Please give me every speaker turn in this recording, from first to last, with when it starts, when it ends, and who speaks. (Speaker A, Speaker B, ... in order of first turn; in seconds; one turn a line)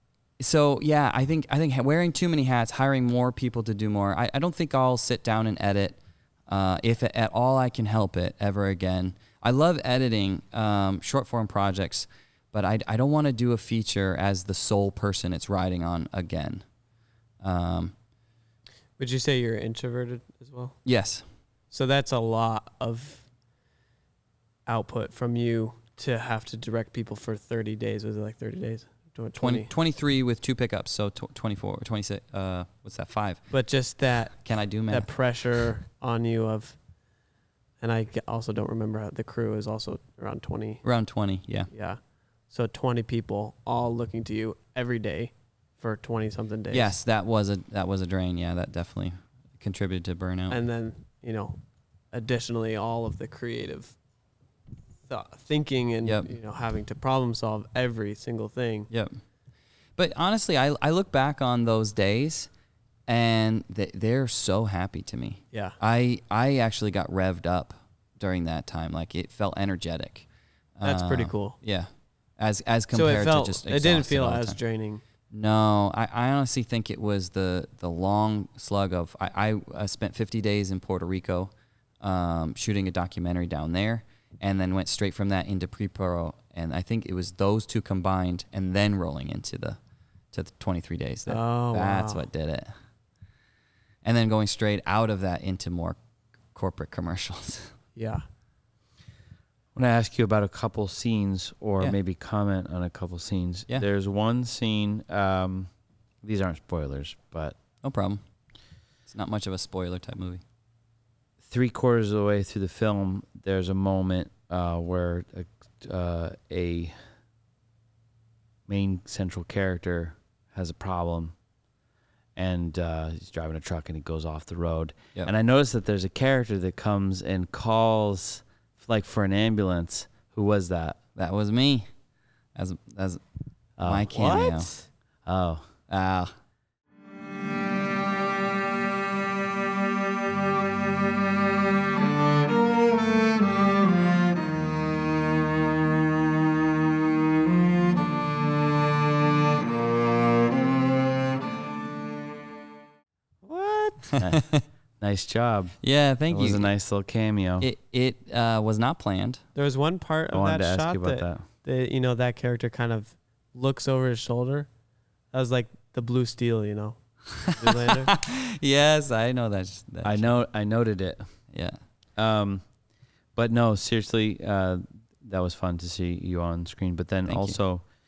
Speaker A: 0.4-16.6
Speaker A: 17.4-17.9
Speaker B: 19.0-20.8
Speaker A: 20.9-21.2
Speaker B: 21.7-23.2
Speaker B: 24.6-29.7
Speaker A: 29.4-33.4
Speaker B: 33.5-36.8
Speaker A: 34.4-35.1
Speaker B: 37.8-40.8
Speaker A: 40.8-41.7
Speaker B: 41.7-46.9
Speaker A: 46.7-50.6
Speaker B: 50.5-51.6
Speaker B: 52.1-54.0
Speaker B: 55.1-58.9
Speaker A: 56.0-56.3
Speaker A: 58.9-59.2
Speaker A: 60.0-62.5
Speaker A: 63.1-70.2
Speaker B: 65.5-65.8
Speaker A: 70.8-74.6
Speaker B: 70.8-71.6
Speaker B: 72.9-75.0
Speaker A: 75.3-89.8
Speaker A: 90.3-92.7
Speaker B: 91.3-92.3
Speaker A: 94.0-96.0
Speaker A: 96.5-97.7
Speaker B: 98.0-98.2
Speaker C: 99.7-105.7
Speaker C: 106.2-107.6
Speaker A: 107.8-108.2
Speaker A: 109.1-110.4
Speaker C: 111.4-117.0
Speaker C: 118.7-121.3
Speaker C: 122.3-131.0
Speaker A: 131.2-131.9
Speaker A: 132.5-133.2
Speaker C: 133.8-134.1
Speaker A: 133.8-134.7
Speaker B: 134.1-134.8
Speaker C: 135.2-135.7
Speaker A: 135.9-136.3
Speaker B: 153.4-154.2
Speaker A: 154.1-154.6
Speaker C: 154.2-154.5
Speaker C: 155.0-155.8
Speaker A: 155.8-156.7
Speaker C: 156.3-157.7
Speaker A: 157.6-159.4
Speaker B: 159.5-164.7
Speaker C: 160.3-161.4
Speaker B: 165.3-168.1
Speaker A: 167.5-170.3
Speaker C: 170.0-171.3
Speaker A: 171.5-171.8
Speaker C: 172.2-172.6
Speaker C: 173.3-177.8
Speaker A: 177.3-177.6